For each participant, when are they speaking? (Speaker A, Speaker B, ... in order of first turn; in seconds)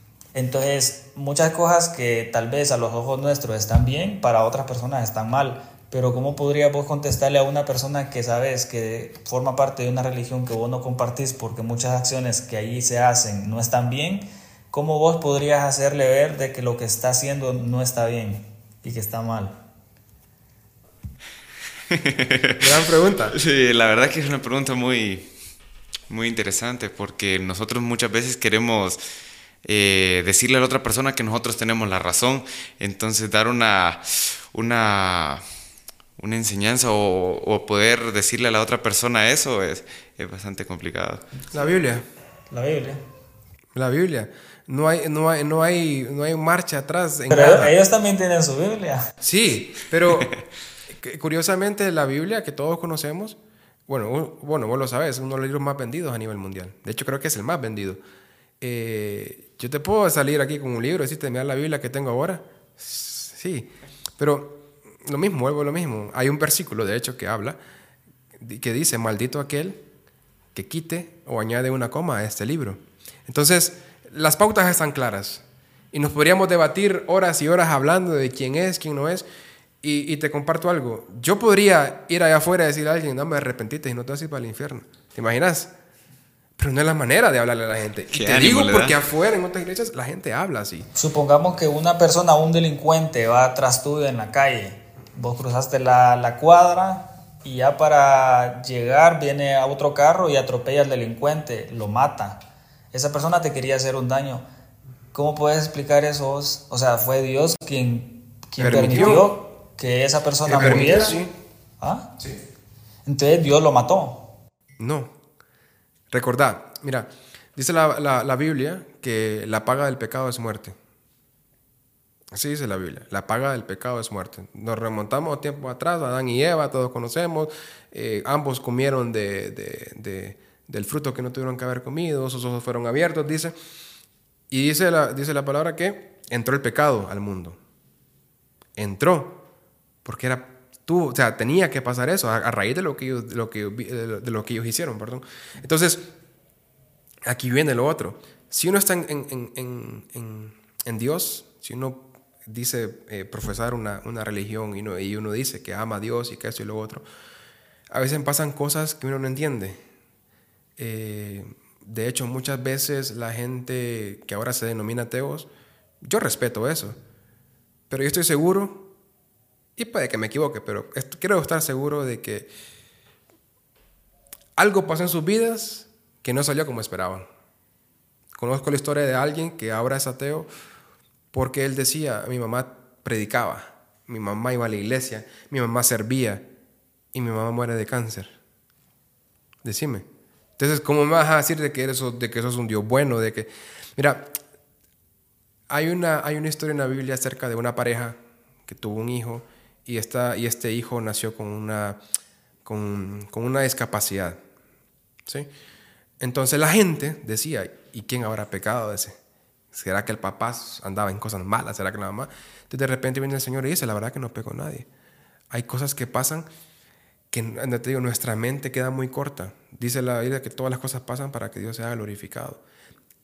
Speaker A: 0.3-19.6, 42.5-43.0, 47.3-49.1, 91.0-104.4, 105.1-111.2, 111.8-112.1, 113.1-114.3
Speaker B: 21.9-22.5, 23.3-25.3, 26.1-29.0, 29.6-35.4, 36.2-41.2, 88.1-89.0
Speaker C: 22.6-23.4, 41.5-42.0, 43.8-47.8, 49.2-50.3, 50.9-58.0, 58.6-67.6, 68.4-69.8, 70.5-79.2, 79.8-85.7, 86.6-90.9, 108.6-109.3, 110.5-111.3, 114.8-115.1, 116.1-120.8, 122.3-133.5, 134.5-137.6, 138.8-139.4, 140.0-146.1, 147.2-157.1, 157.9-159.8, 160.8-165.5, 166.0-167.0, 167.9-168.9, 169.8-172.5, 174.6-177.3, 178.4-180.5, 181.3-186.4, 187.1-188.3, 189.6-190.1, 190.6-194.4, 195.7-202.0, 202.7-204.4, 206.2-209.2, 209.7-214.9, 215.5-216.5, 217.3-222.6